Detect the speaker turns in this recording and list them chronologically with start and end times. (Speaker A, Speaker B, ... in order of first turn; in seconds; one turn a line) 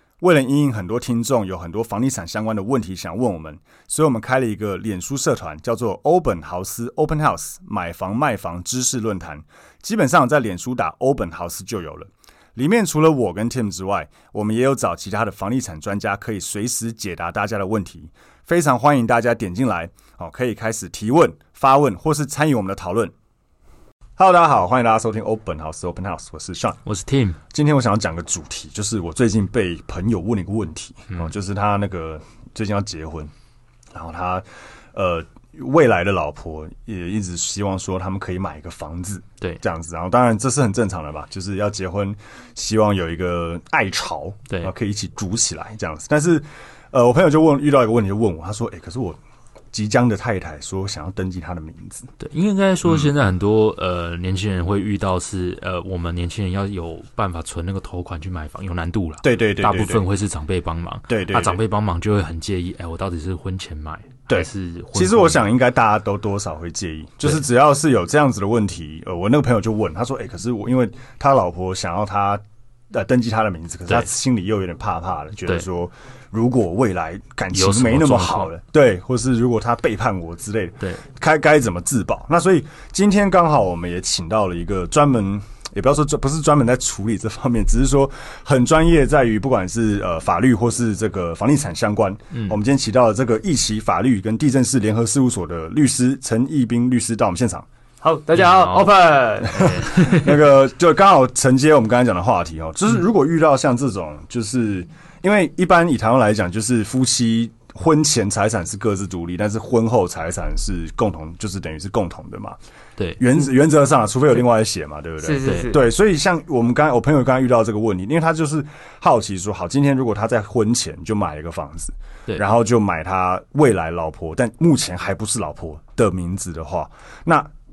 Speaker A: 0.2-23.1
Speaker A: 24.2-26.8
Speaker B: 26.8-27.4
Speaker A: 27.5-33.3
Speaker A: 33.9-49.2
Speaker A: 49.7-52.1
Speaker B: 52.2-65.4
Speaker A: 52.8-53.1
Speaker A: 59.2-60.0
Speaker A: 61.1-61.6
Speaker A: 64.3-97.7
Speaker B: 77.5-78.5
Speaker C: 98.0-99.8
Speaker B: 98.3-100.4
Speaker A: 99.5-112.6
Speaker A: 113.2-127.5
Speaker C: 115.2-115.8